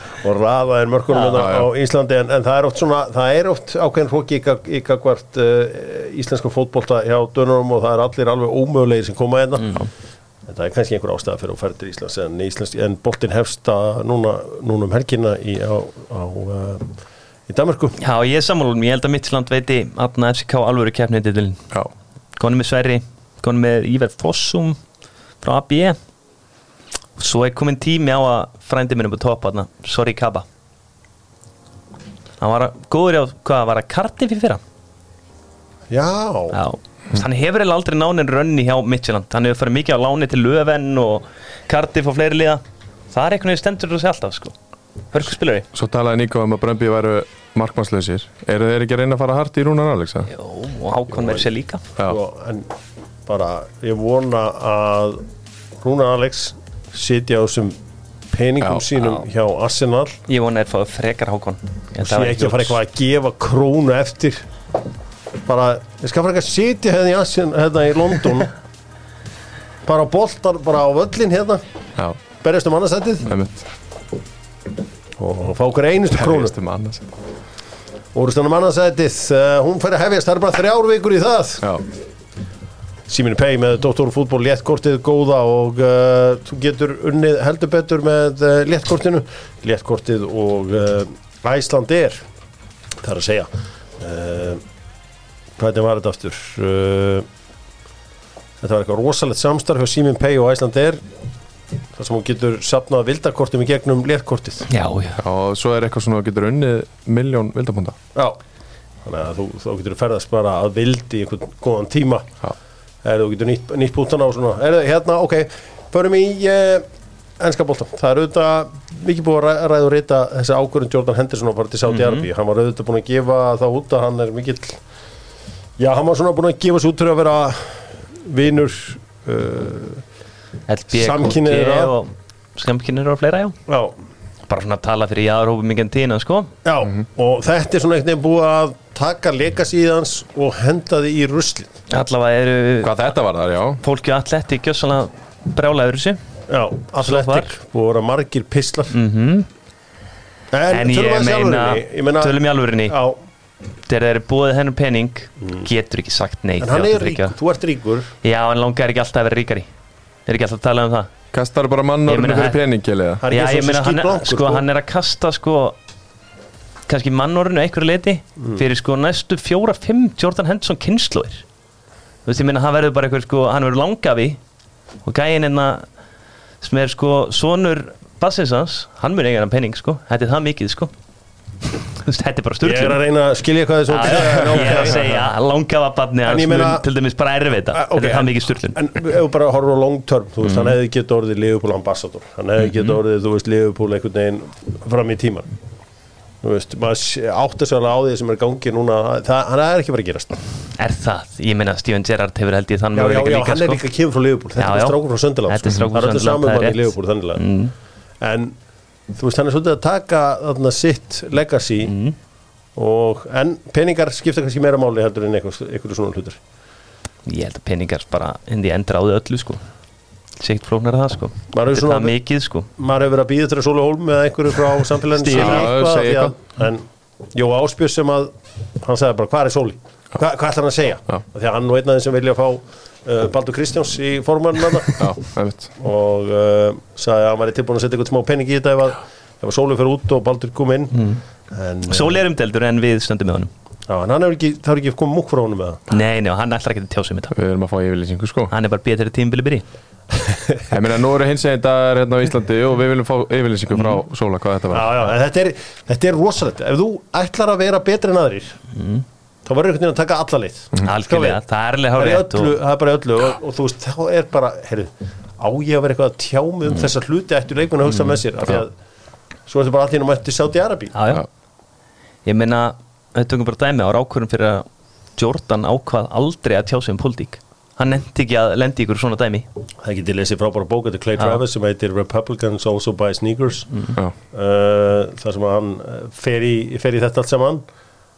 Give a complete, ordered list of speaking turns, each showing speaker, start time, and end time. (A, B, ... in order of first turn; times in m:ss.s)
0:00.2-0:09.7 A
0:01.4-0:01.7 B
0:09.6-0:09.8 C
0:10.5-0:16.9 A
0:17.5-0:18.0 A
0:18.0-0:21.6 C
0:22.4-0:24.8 C
0:25.4-0:26.0 C
0:27.2-0:30.4 C
0:32.4-0:34.6 C
0:35.9-0:36.6 A
0:36.5-0:44.5 C
0:45.1-0:45.6 C
0:45.7-0:50.3 B
0:50.3-0:51.8 C
0:52.0-0:52.7 A
0:53.3-0:55.2 A
0:55.8-0:57.7 A
0:58.3-1:00.2 A
0:59.0-0:59.2 C
1:00.3-1:02.8 C
1:02.0-1:04.5 A
1:05.4-1:08.5 A
1:09.8-1:11.6 A
1:12.4-1:13.3 A
1:13.2-1:13.6 B
1:15.2-1:16.5 A
1:16.1-1:17.0 B
1:18.1-1:21.7 A
1:23.1-1:32.2 A
1:33.0-1:34.6 A
1:35.6-1:37.2 A
1:38.6-1:41.0 A
1:42.0-1:44.6 A
1:44.7-1:45.2 C
1:45.2-1:48.0 B
1:49.0-1:52.3 A
1:53.0-1:56.8 A
1:57.4-2:04.8 A
2:01.9-2:02.2 C
2:05.8-2:10.0 A
2:10.7-2:13.5 C
2:10.9-2:11.9 A
2:13.7-2:13.9 A
2:14.5-2:16.5 C
2:16.6-2:21.7 A
2:21.9-2:23.0 C
2:22.8-2:23.8 B
2:23.8-2:26.2 C
2:26.5-2:28.9 A
2:27.0-2:27.5 C
2:28.9-2:29.5 C
2:30.5-2:33.2 A
2:30.7-2:33.0 C
2:33.9-2:37.4 C
2:35.4-2:35.7 A
2:36.6-2:38.1 A
2:38.2-2:39.7 C
2:40.3-2:41.1 C
2:41.3-2:43.2 B
2:42.1-2:42.6 C
2:43.2-2:44.6 A
2:43.3-2:45.8 C
2:46.9-2:51.4 C
2:48.4-2:48.6 A
2:52.2-2:54.4 C
2:55.0-2:55.9 C
2:56.6-3:00.9 C
3:01.9-3:03.0 C
3:02.6-3:05.0 A
3:03.9-3:08.8 C
3:04.5-3:05.0 B
3:06.2-3:06.8 A
3:07.7-3:15.5 A
3:10.4-3:10.8 C
3:12.6-3:13.0 C
3:16.4-3:20.3 A
3:20.8-3:23.8 C
3:22.9-3:27.4 A
3:24.6-3:27.7 C
3:28.2-3:28.6 A
3:29.1-3:31.9 A
3:31.8-3:32.2 C
3:32.8-3:36.4 A
3:37.2-3:39.6 C
3:40.4-3:42.7 C
3:41.5-3:42.1 A
3:42.8-3:55.2 A
3:45.2-3:45.7 C
3:45.2-3:46.3 B
3:55.0-3:55.7 B
3:55.8-4:02.2 A
4:00.9-4:01.2 C
4:01.9-4:03.5 C
4:03.9-4:05.8 A
4:05.9-4:07.3 C
4:07.3-4:08.5 B
4:08.5-4:09.6 C
4:10.2-4:10.6 A
4:10.7-4:15.0 B
4:14.7-4:18.6 A
4:18.7-4:19.0 C
4:19.4-4:21.4 A
4:20.8-4:22.5 C
4:22.0-4:28.7 A
4:27.9-4:28.2 C
4:29.5-4:30.9 A
4:30.9-4:31.2 C
4:32.2-4:39.5 C
4:39.8-4:43.7 A
4:44.3-4:47.6 A